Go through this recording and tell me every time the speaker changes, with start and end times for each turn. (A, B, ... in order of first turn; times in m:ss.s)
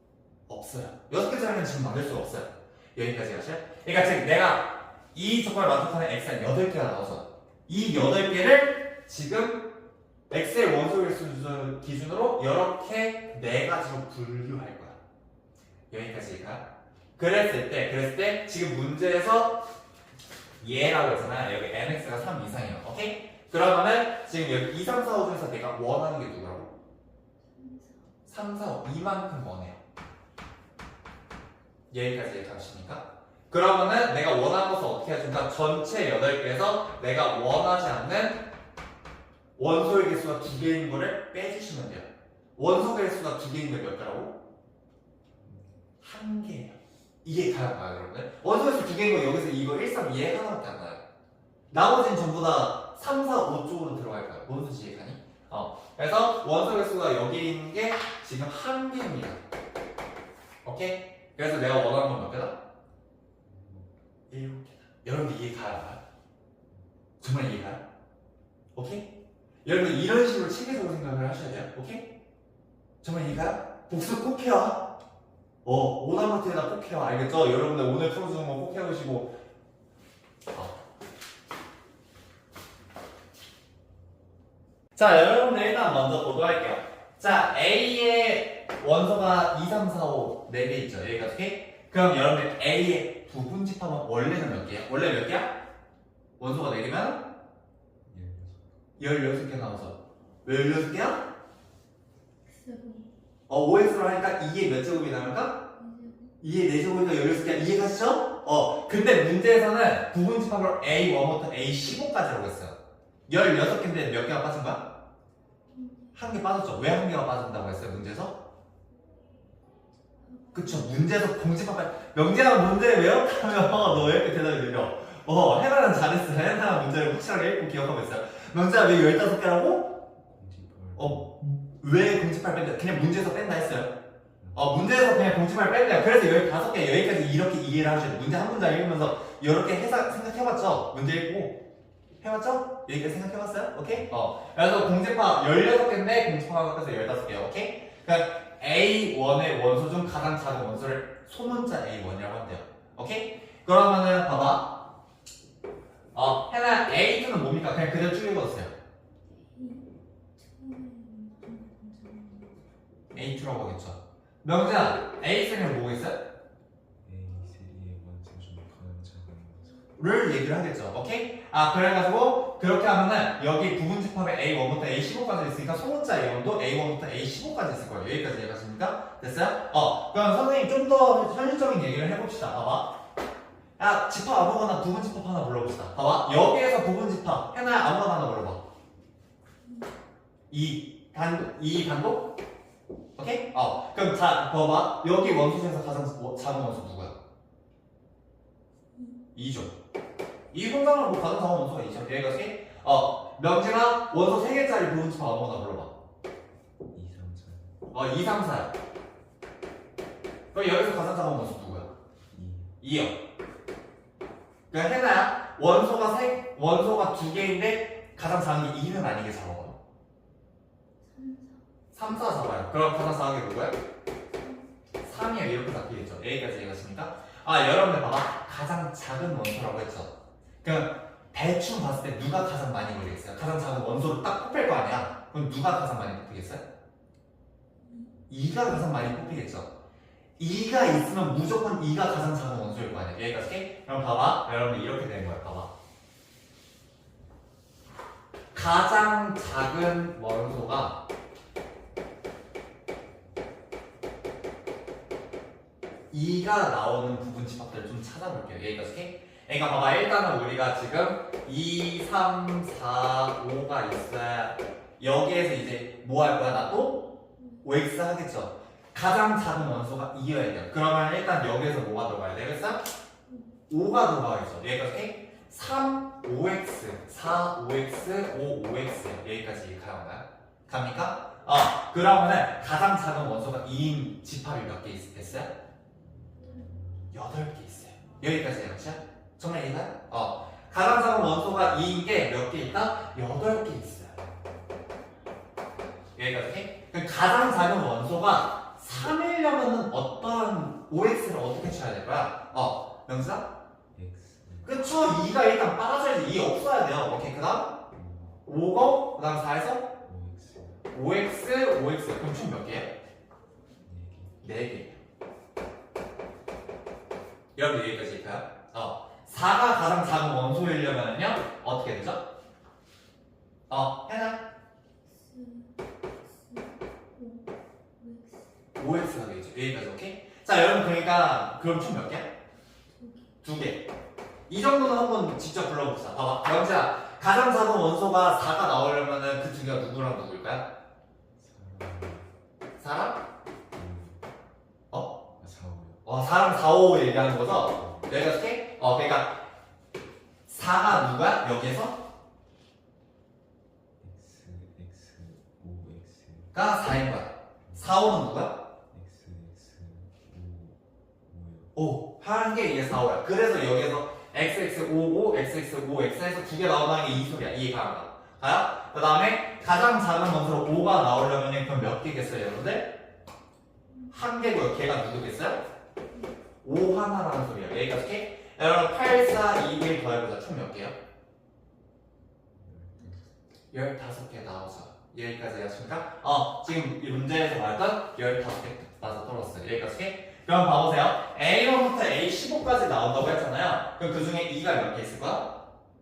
0:00.5-0:09.6 A
0:10.3-0:15.0 A
0:15.9-0:16.7 A
0:17.2-0:19.6 A
0:20.6-0:26.7 A
0:27.5-0:28.0 B
0:28.3-0:29.8 A
0:31.9-0:38.4 A
0:39.6-0:44.4 A
0:45.4-0:45.8 C
0:46.0-0:51.0 A
0:51.7-0:59.4 A
1:00.6-1:02.6 A
1:03.4-1:04.0 C
1:04.3-1:06.0 A
1:07.2-1:07.8 A
1:08.8-1:09.1 A
1:09.6-1:12.1 A
1:13.0-1:14.8 A
1:15.6-1:19.4 A
1:25.0-1:35.5 A
1:36.4-1:37.2 A
1:38.1-1:38.8 C
1:39.0-1:41.2 A
1:42.5-1:43.1 B
1:43.5-1:45.6 A
1:45.8-1:46.4 B
1:46.4-1:52.8 A
1:53.3-1:54.8 A
1:55.7-1:56.3 B
1:56.2-1:58.4 A
2:00.2-2:01.2 B
2:00.5-2:09.9 A
2:03.6-2:04.2 C
2:10.2-2:11.3 C
2:11.0-2:13.9 A
2:14.4-2:14.7 C
2:14.5-2:21.6 A
2:22.2-2:34.7 A
2:36.1-2:38.7 A
2:39.3-2:42.6 B
2:43.1-2:46.2 A
2:47.0-2:49.8 C
2:50.0-3:02.9 A
3:03.8-3:08.6 A
3:09.6-3:09.9 B
3:10.5-3:12.3 A
3:13.2-3:17.2 A
3:18.9-3:19.3 B
3:19.4-3:19.7 A
3:20.5-3:25.9 A
3:26.9-3:27.8 C
3:27.9-3:28.7 A
3:30.5-3:31.9 A
3:32.3-3:32.8 C
3:32.8-3:33.1 A
3:34.7-3:39.8 A
3:41.0-3:41.6 B
3:41.9-3:43.8 A
3:44.3-3:44.7 B
3:45.0-3:50.1 A
3:50.6-3:56.6 A
3:57.8-3:58.1 B
3:58.3-3:59.7 A
4:00.4-4:05.7 A
4:08.5-4:11.0 A
4:16.1-4:27.0 A
4:27.4-4:27.7 B
4:27.6-4:32.8 A
4:33.3-4:33.6 B
4:33.7-4:45.5 A
4:46.4-4:46.7 B
4:47.1-4:54.2 A
4:56.2-5:03.5 A
5:03.9-5:04.9 C
5:04.6-5:07.8 A
5:07.9-5:08.4 C
5:08.5-5:09.9 A
5:10.0-5:10.9 C
5:10.9-5:12.9 A
5:13.8-5:14.5 C
5:14.4-5:15.0 A
5:17.6-5:22.2 A
5:23.7-5:24.4 A
5:25.0-5:28.5 B
5:28.8-5:32.3 A
5:32.9-5:33.4 B
5:33.4-5:33.8 A
5:34.5-5:40.6 A
5:41.4-5:42.3 C
5:42.8-5:43.2 A
5:43.7-5:44.2 C
5:45.4-5:46.0 C
5:46.0-5:49.3 A
5:47.7-5:48.1 C
5:50.5-5:52.0 A
5:54.0-5:56.6 C
5:56.5-5:58.6 A
5:57.6-5:58.0 C
5:58.9-6:01.8 C
6:01.8-6:12.9 A
6:14.1-6:15.6 A
6:16.6-6:20.9 A
6:22.5-6:23.2 C
6:23.0-6:23.3 B
6:23.7-6:35.6 A